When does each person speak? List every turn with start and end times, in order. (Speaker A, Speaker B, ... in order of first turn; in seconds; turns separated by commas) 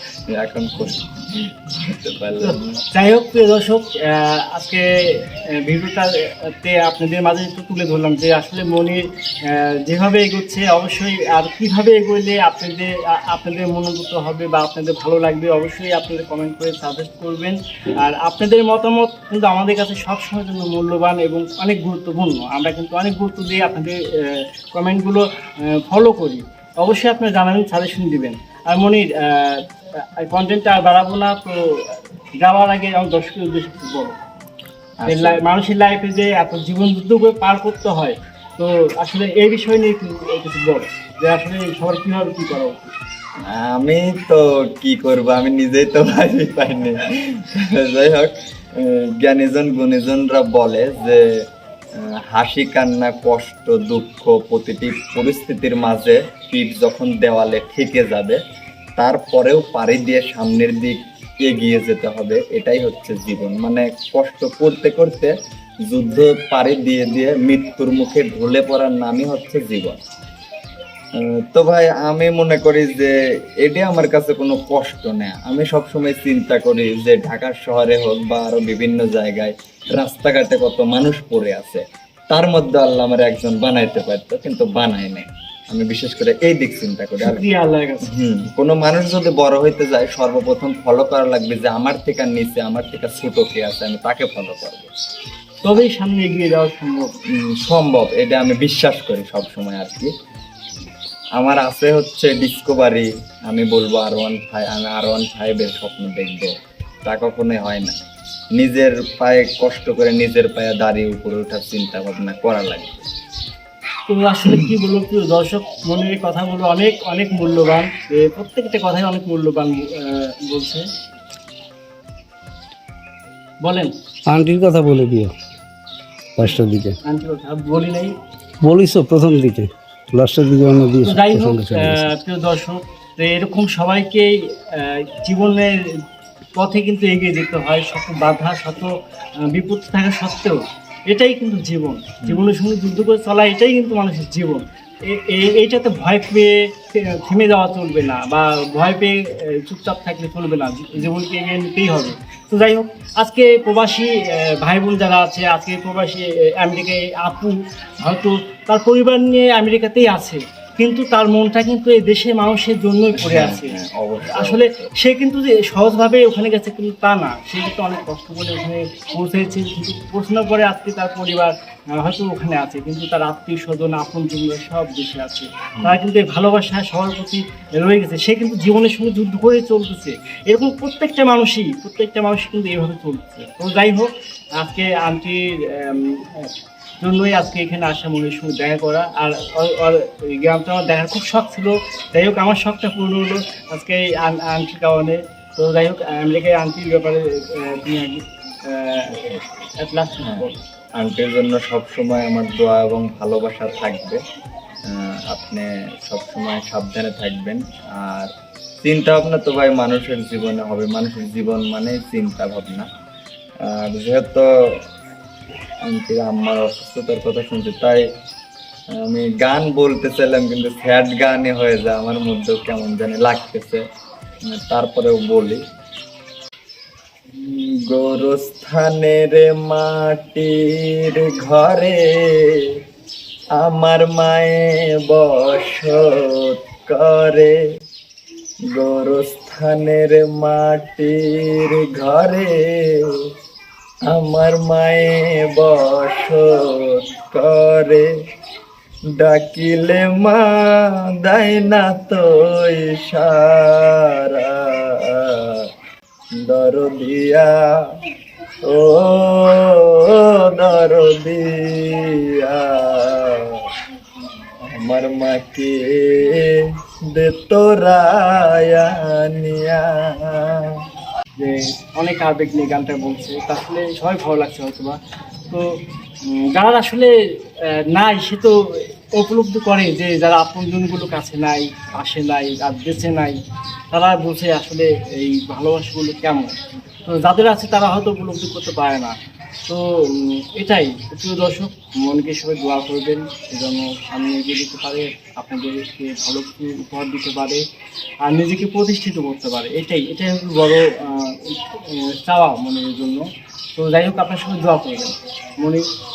Speaker A: 0.3-2.8, Speaker B: 2.4-34.2, Speaker A: 35.0-35.4, Speaker B: 35.0-42.9, Speaker A: 43.5-51.2, Speaker A: 52.0-58.4, Speaker A: 59.0-65.3, Speaker A: 65.9-70.0, Speaker A: 71.2-87.4, Speaker B: 87.2-88.1, Speaker A: 88.1-94.9, Speaker B: 95.6-97.2, Speaker A: 97.4-100.1, Speaker A: 101.4-106.5, Speaker A: 107.0-108.0, Speaker A: 108.6-113.1, Speaker B: 114.1-120.9, Speaker B: 123.6-123.9, Speaker C: 124.3-125.3, Speaker C: 126.3-127.0, Speaker B: 126.4-128.1, Speaker C: 128.6-132.1, Speaker B: 131.0-136.0, Speaker B: 136.6-200.6, Speaker A: 142.2-142.4, Speaker A: 163.1-164.9, Speaker A: 199.1-199.4, Speaker A: 200.2-200.4, Speaker A: 201.0-204.2, Speaker A: 204.9-208.3, Speaker A: 208.8-212.9, Speaker A: 213.6-214.8, Speaker A: 215.8-218.0, Speaker A: 218.9-223.8, Speaker A: 224.5-225.6, Speaker A: 227.3-232.7, Speaker A: 233.6-237.6, Speaker A: 238.7-243.2, Speaker A: 244.1-248.1, Speaker A: 249.2-255.7, Speaker A: 256.4-257.7, Speaker A: 258.6-263.6, Speaker A: 264.6-266.6, Speaker A: 267.1-270.7, Speaker B: 271.4-275.0, Speaker B: 275.5-283.4, Speaker B: 283.9-286.5, Speaker B: 287.1-289.1, Speaker B: 289.7-297.6, Speaker B: 298.2-303.2, Speaker B: 303.8-305.8